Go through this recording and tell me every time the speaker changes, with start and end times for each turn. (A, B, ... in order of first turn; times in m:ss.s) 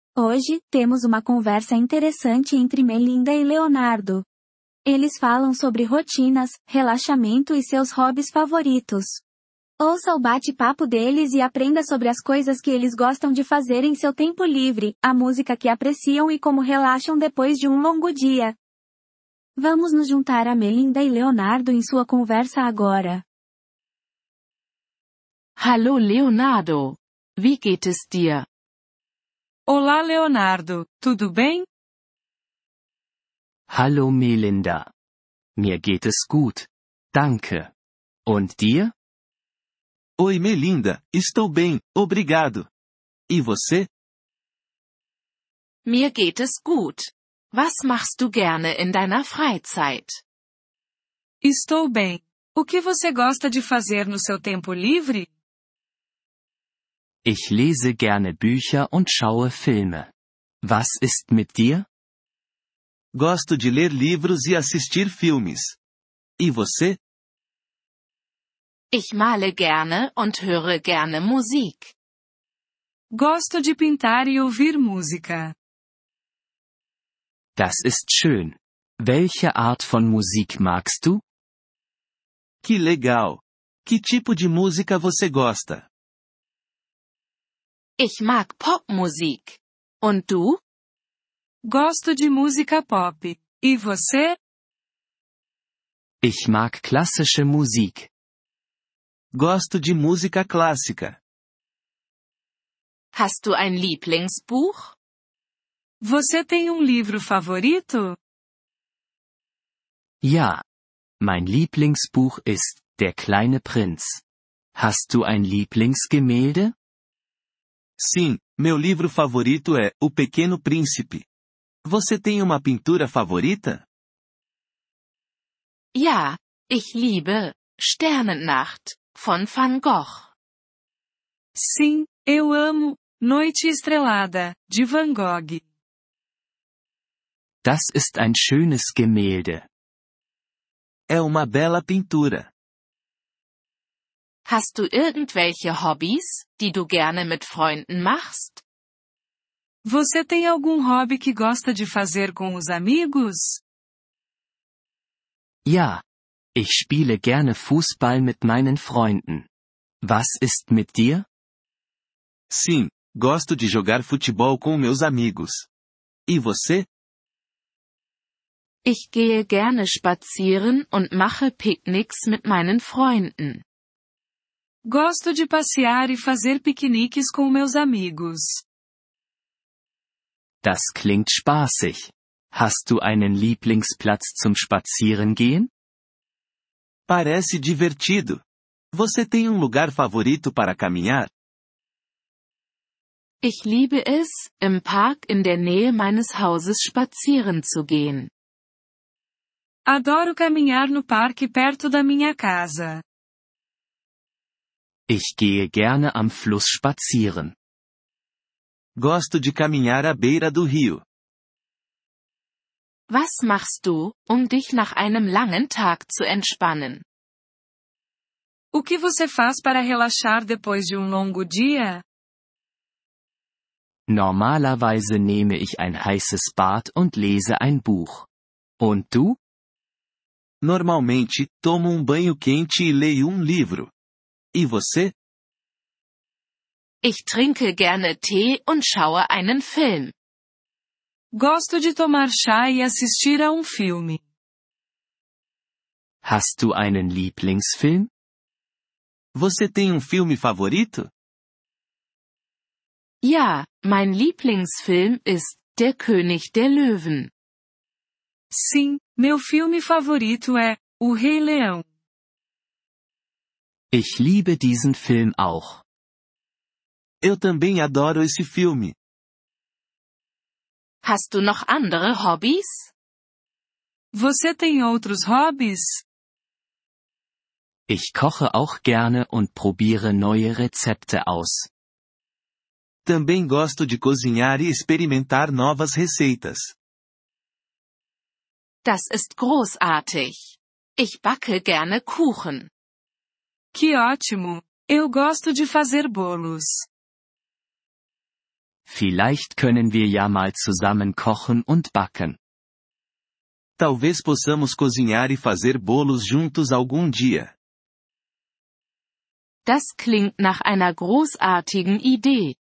0:00.2-0:04.2 A
0:04.8-0:09.2 A
0:09.8-0:18.6 A
0:19.6-0:23.2 A
0:25.6-0:28.4 B
0:29.7-0:31.6 C
0:33.7-0:34.9 D
0:35.6-0:37.7 D
0:38.2-0:38.9 D
0:40.2-0:42.7 E
0:43.3-0:43.9 E
0:45.8-0:50.2 B
0:51.4-0:55.3 C
0:57.2-1:00.1 D
1:00.6-1:01.9 D
1:03.1-1:05.8 E
1:06.4-1:07.0 E
1:08.9-1:11.9 B
1:13.1-1:15.5 C
1:17.6-1:21.2 D
1:22.6-1:25.9 E
1:28.0-1:30.6 B
1:31.6-1:34.4 C
1:36.2-1:38.1 D
1:39.3-1:41.2 E
1:43.1-1:44.9 B
1:46.0-1:48.2 C
1:50.2-1:50.6 D
1:51.2-1:54.2 D
1:54.7-1:56.7 D
1:58.0-2:01.2 E
2:01.8-2:03.8 E
2:05.9-2:10.3 B
2:11.6-2:15.6 C
2:17.6-2:19.7 D
2:21.1-2:22.5 E
2:24.4-2:28.6 B
2:29.8-2:33.6 C
2:35.6-2:36.0 D
2:36.5-2:39.5 D
2:40.0-2:41.3 D
2:42.5-2:45.7 E
2:46.3-2:46.9 E
2:48.8-2:53.6 B
2:54.8-2:58.6 C
3:00.6-3:05.7 D
3:07.1-3:11.3 E
3:13.4-3:18.3 B
3:19.8-3:23.0 C
3:25.1-3:27.5 D
3:29.0-3:31.0 E
3:33.1-3:37.0 B
3:38.7-3:42.0 C
3:44.1-3:48.3 D
3:48.8-3:49.4 D
3:50.6-3:53.9 E
3:54.5-3:55.1 E
3:57.0-4:00.1 B
4:01.3-4:04.2 C
4:06.2-4:08.1 D
4:09.3-4:11.1 E
4:13.2-4:17.3 B
4:18.5-4:21.8 C
4:23.9-4:25.8 D
4:27.2-4:29.0 E
4:31.0-4:32.9 B
4:34.1-4:36.0 C
4:37.9-4:41.7 D
4:43.0-4:46.7 E
4:48.8-4:52.7 B
4:53.7-4:56.8 C
4:58.9-5:02.4 D
5:03.8-5:07.5 E
5:09.6-5:12.6 B